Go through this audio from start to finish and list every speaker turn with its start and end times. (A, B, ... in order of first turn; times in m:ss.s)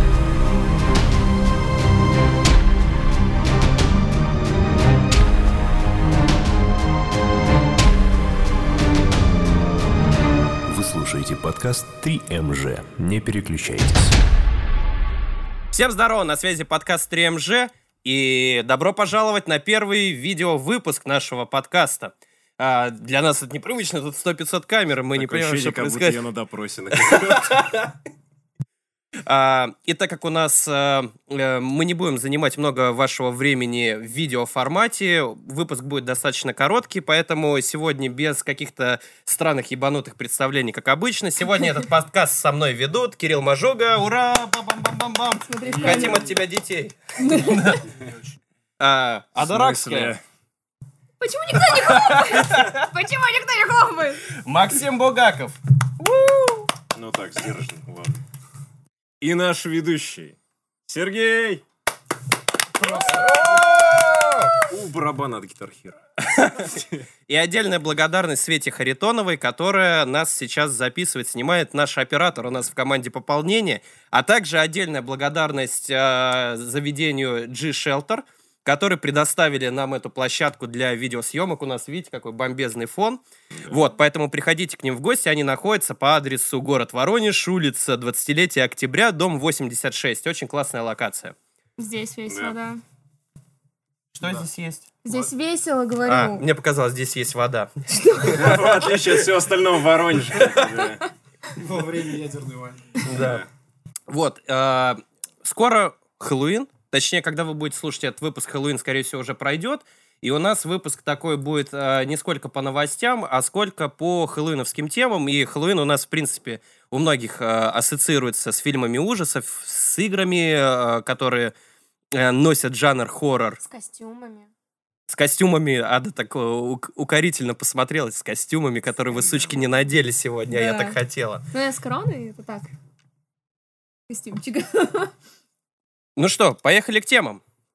0:10.6-0:14.2 A
0:15.7-0:26.2 B
0:25.2-0:27.7 C
0:27.0-0:27.9 B
0:29.2-0:47.9 B
0:45.5-0:46.3 D
0:45.6-0:46.4 C
0:47.2-0:47.7 D
0:48.8-0:50.2 B
0:49.4-0:50.2 C
0:51.2-0:54.2 D
0:51.7-0:52.8 B
0:54.3-0:56.7 B
0:56.9-0:58.2 C
0:59.2-1:00.4 C
1:00.9-1:01.6 C
1:02.8-1:03.6 E
1:02.8-1:04.6 B
1:04.6-1:07.0 C
1:06.4-1:06.7 B
1:07.3-1:31.3 B
1:31.8-1:32.8 D
1:32.3-1:32.6 C
1:34.1-1:34.9 B
1:34.2-1:34.4 E
1:35.0-1:36.4 D
1:36.0-1:39.2 B
1:37.9-1:38.6 D
1:38.3-1:41.1 C
1:40.3-1:40.8 B
1:41.6-1:43.0 E
1:43.0-1:43.4 B
1:43.1-1:43.5 C
1:44.1-2:01.5 B
2:02.1-2:03.6 B
2:03.6-2:04.5 D
2:05.1-2:11.4 B
2:09.1-2:09.6 C
2:10.5-2:11.0 D
2:11.5-2:12.7 D
2:14.1-2:15.1 D
2:16.2-2:17.4 B